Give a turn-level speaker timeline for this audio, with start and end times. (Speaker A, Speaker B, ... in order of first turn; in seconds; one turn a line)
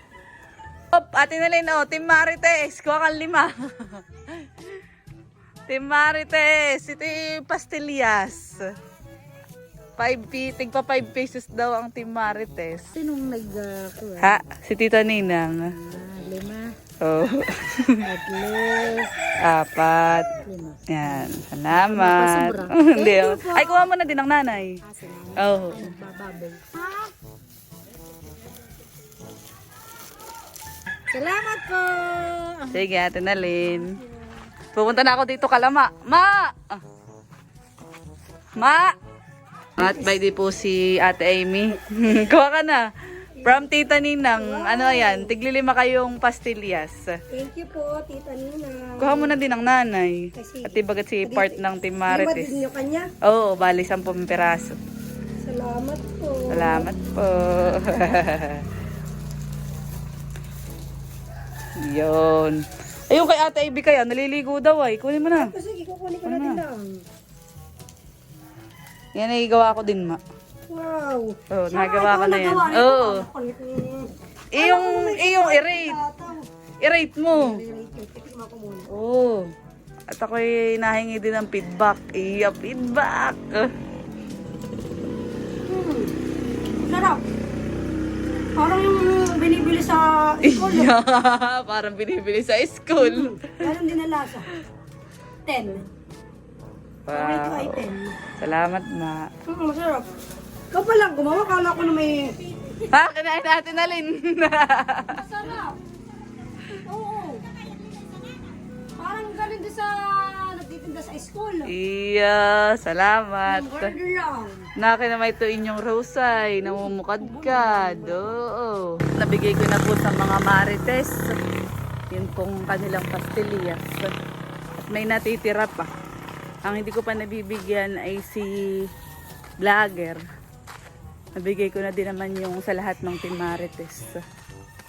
Speaker A: 0.9-4.7
Speaker A: 5.7-8.7
Speaker A: 10.0-13.0
Speaker B: 12.9-14.4
Speaker A: 14.2-15.7
Speaker B: 15.7-16.7
Speaker A: 17.0-18.1
Speaker B: 18.0-19.1
Speaker A: 19.4-20.3
Speaker B: 20.4-23.9
Speaker A: 20.9-24.8
Speaker B: 24.8-27.1
Speaker A: 25.4-25.9
Speaker B: 31.1-32.8
Speaker A: 32.7-33.9
Speaker B: 33.5-34.1
Speaker A: 34.7-36.8
Speaker A: 38.6-38.9
Speaker A: 39.8-42.9
Speaker B: 39.8-40.2
Speaker A: 43.4-47.0
Speaker B: 44.3-45.3
Speaker B: 47.3-49.4
Speaker A: 49.0-52.6
Speaker B: 50.3-53.1
Speaker A: 53.2-54.8
Speaker B: 55.4-56.9
Speaker A: 56.5-58.7
Speaker A: 61.8-65.5
Speaker B: 65.3-67.0
Speaker A: 66.2-66.6
Speaker A: 69.2-70.2
Speaker B: 70.7-76.5
Speaker A: 71.5-73.2
Speaker A: 74.5-76.0
Speaker A: 76.8-77.6
Speaker B: 77.3-78.9
Speaker A: 78.9-79.5
Speaker A: 80.1-83.7
Speaker B: 85.6-86.2
Speaker B: 86.8-87.2
Speaker B: 88.5-90.9
Speaker A: 90.4-93.7
Speaker B: 93.0-94.5
Speaker B: 95.5-95.9
Speaker A: 97.1-97.9
Speaker B: 97.1-98.2
Speaker A: 98.4-99.3
Speaker B: 99.5-100.1
Speaker B: 100.7-102.8
Speaker A: 102.9-105.2
Speaker B: 105.1-105.8
Speaker B: 106.7-107.4
Speaker B: 109.0-111.7
Speaker A: 111.7-113.9
Speaker B: 113.5-114.7
Speaker A: 114.8-121.3
Speaker B: 116.6-118.2
Speaker A: 122.1-124.1
Speaker A: 124.8-125.9
Speaker A: 126.7-128.5
Speaker A: 129.6-130.2
Speaker A: 131.4-134.2